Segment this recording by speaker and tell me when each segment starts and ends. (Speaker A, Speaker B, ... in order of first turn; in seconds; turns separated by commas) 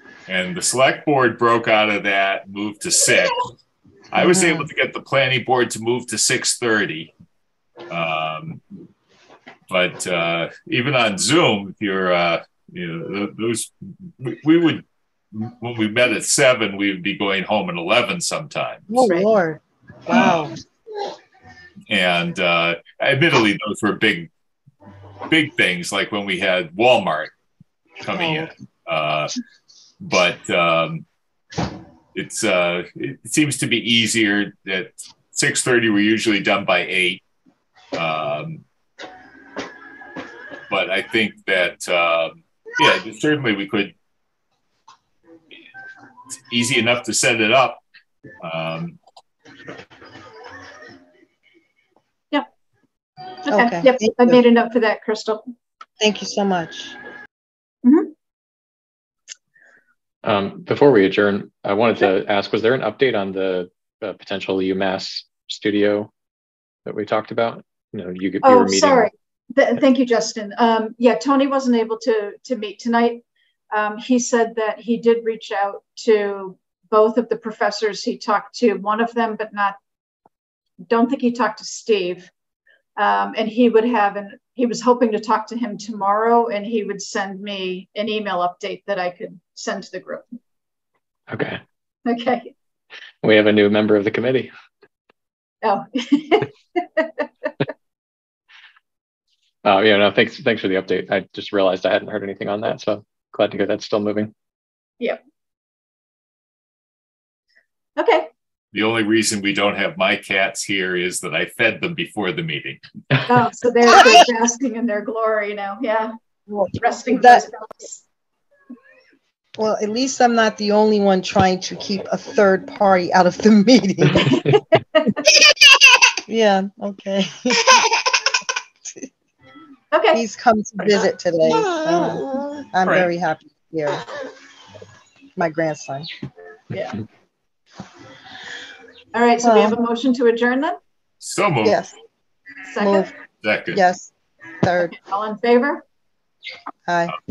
Speaker A: 0.3-3.5, Speaker A: 4.1-7.1, Speaker B: 4.2-4.7, Speaker A: 7.9-8.6, Speaker A: 9.7-19.2, Speaker B: 18.9-20.6, Speaker A: 20.1-20.5, Speaker A: 21.9-24.3, Speaker A: 25.3-27.3, Speaker A: 28.0-29.3, Speaker A: 30.0-31.0, Speaker A: 32.1-37.2, Speaker A: 37.9-38.6, Speaker A: 40.7-43.9, Speaker A: 46.5-47.8, Speaker A: 48.4-49.0, Speaker B: 53.5-54.4, Speaker C: 53.5-55.4, Speaker B: 56.0-56.9, Speaker C: 57.8-58.1, Speaker D: 60.2-66.1, Speaker D: 66.8-69.1, Speaker C: 68.4-79.8, Speaker C: 80.9-82.3, Speaker C: 83.0-90.3, Speaker D: 91.3-91.6, Speaker C: 92.0-92.5, Speaker D: 93.2-94.5, Speaker C: 95.6-97.3, Speaker D: 99.6-104.3, Speaker C: 108.0-108.3, Speaker A: 108.7-112.8, Speaker C: 113.3-116.1, Speaker B: 116.5-117.4, Speaker C: 116.8-118.0, Speaker B: 119.6-124.6, Speaker C: 124.4-125.2, Speaker B: 126.3-128.0, Speaker C: 129.9-130.2, Speaker B: 130.1-134.2, Speaker A: 132.8-133.1, Speaker B: 135.3-136.1, Speaker C: 136.7-137.0, Speaker C: 139.1-140.8, Speaker B: 139.4-139.8, Speaker A: 141.2-141.9, Speaker B: 141.6-141.9, Speaker C: 142.6-143.1, Speaker B: 142.8-143.1, Speaker A: 143.4-143.8, Speaker B: 143.7-145.0, Speaker C: 144.9-145.8, Speaker B: 146.8-147.2